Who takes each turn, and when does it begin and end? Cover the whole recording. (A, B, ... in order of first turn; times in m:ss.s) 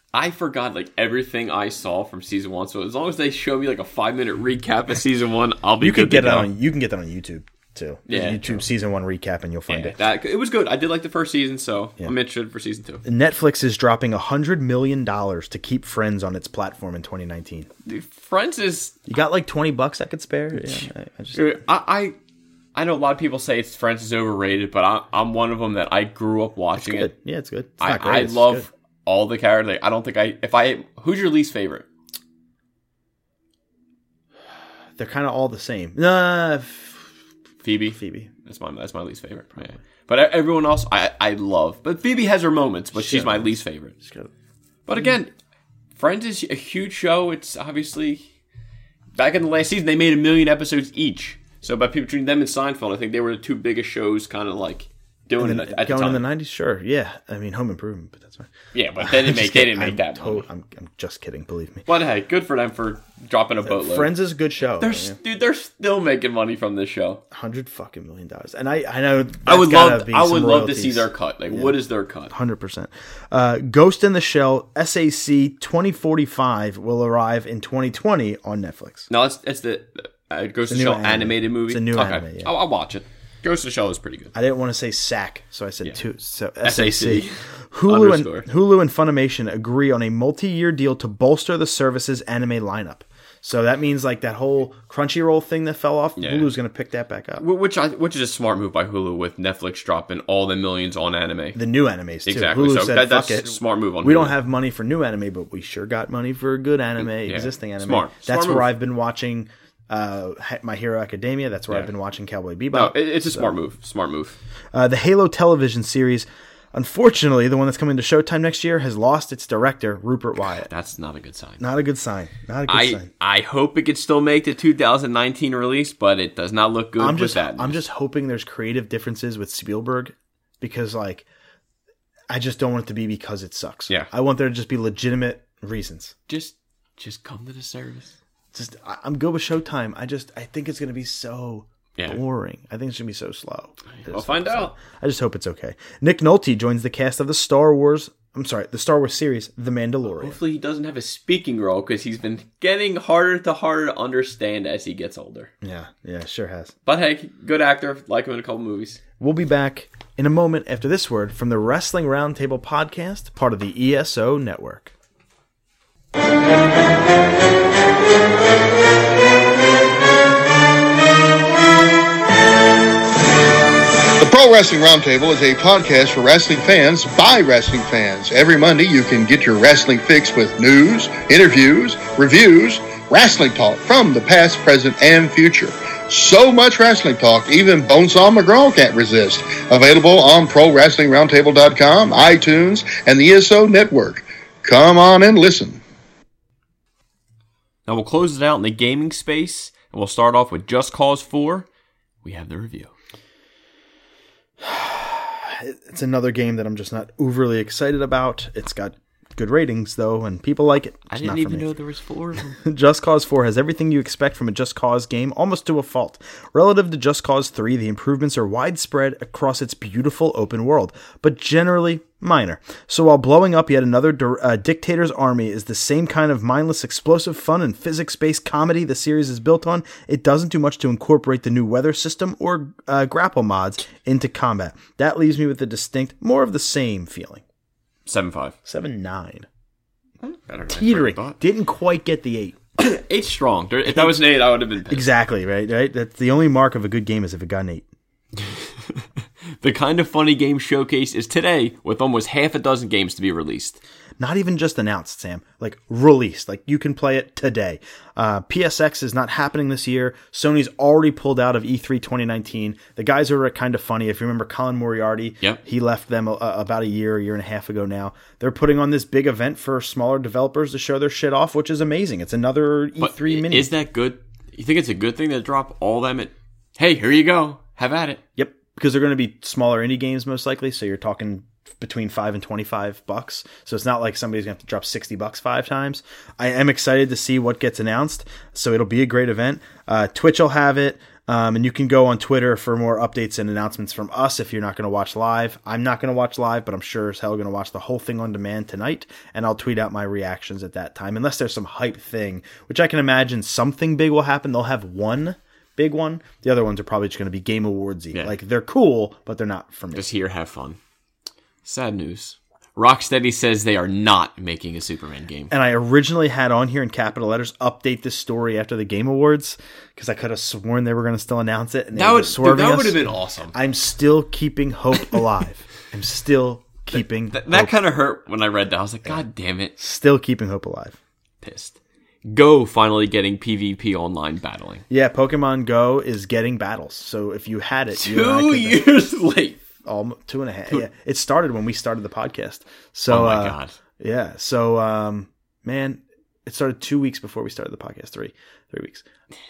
0:00.1-0:06.5 A
0:05.8-0:10.0 B
0:08.1-0:08.6 A
0:09.7-0:13.0 A
0:13.0-0:17.7 B
0:17.9-0:19.0 A
0:19.1-0:21.6 B
0:20.7-0:22.2 A
0:22.8-0:27.1 A
0:26.8-0:28.7 B
0:27.8-0:31.9 A
0:35.0-0:37.1 B
0:37.6-0:44.0 A
0:37.9-0:38.3 B
0:43.0-0:44.3 B
0:44.9-0:45.3 A
0:46.0-0:48.2 A
0:49.2-0:56.2 A
0:55.4-1:01.9 B
0:58.7-1:00.5 A
1:01.9-1:04.1 A
1:03.6-1:05.2 B
1:04.8-1:07.2 A
1:07.3-1:11.8 B
1:09.5-1:12.3 A
1:12.3-1:19.1 B
1:19.1-1:24.3 A
1:20.7-1:22.5 B
1:24.3-1:37.4 B
1:26.6-1:28.5 A
1:36.2-1:36.5 A
1:37.4-1:41.6 A
1:41.6-1:53.5 B
1:42.3-1:44.4 A
1:47.0-1:48.7 A
1:52.7-1:54.4 A
1:54.7-2:00.7 B
2:00.7-2:01.6 A
2:01.6-2:03.1 B
2:02.7-2:07.8 A
2:07.0-2:11.3 B
2:12.3-2:16.1 B
2:16.3-2:18.1 A
2:18.5-2:30.4 B
2:23.9-2:24.7 A
2:30.2-2:35.5 A
2:35.6-2:36.7 B
2:36.9-2:39.0 A
2:39.2-2:44.9 B
2:54.2-3:15.8 C
3:17.9-3:21.7 A
3:22.2-3:22.9 A
3:24.6-3:31.7 B
3:31.1-3:32.6 A
3:32.6-3:57.4 B
3:58.1-3:58.6 A
3:58.6-3:59.5 B
4:00.2-4:01.4 A
4:00.7-4:02.6 B
4:02.8-4:05.1 A
4:03.9-4:04.2 B
4:04.9-4:07.9 B
4:08.4-4:09.0 A
4:09.6-4:13.8 A
4:14.2-4:33.7 B
4:33.0-4:38.2 A
4:38.4-5:10.1 B
5:09.9-5:10.8 A
5:11.6-5:15.5 A
5:15.5-5:27.8 B
5:22.0-5:23.6 A
5:27.3-5:29.8 A
5:29.8-5:31.0 B
5:31.4-5:34.8 A
5:34.9-5:38.8 B
5:38.0-5:39.6 A
5:39.8-5:49.0 B
5:43.1-5:43.8 A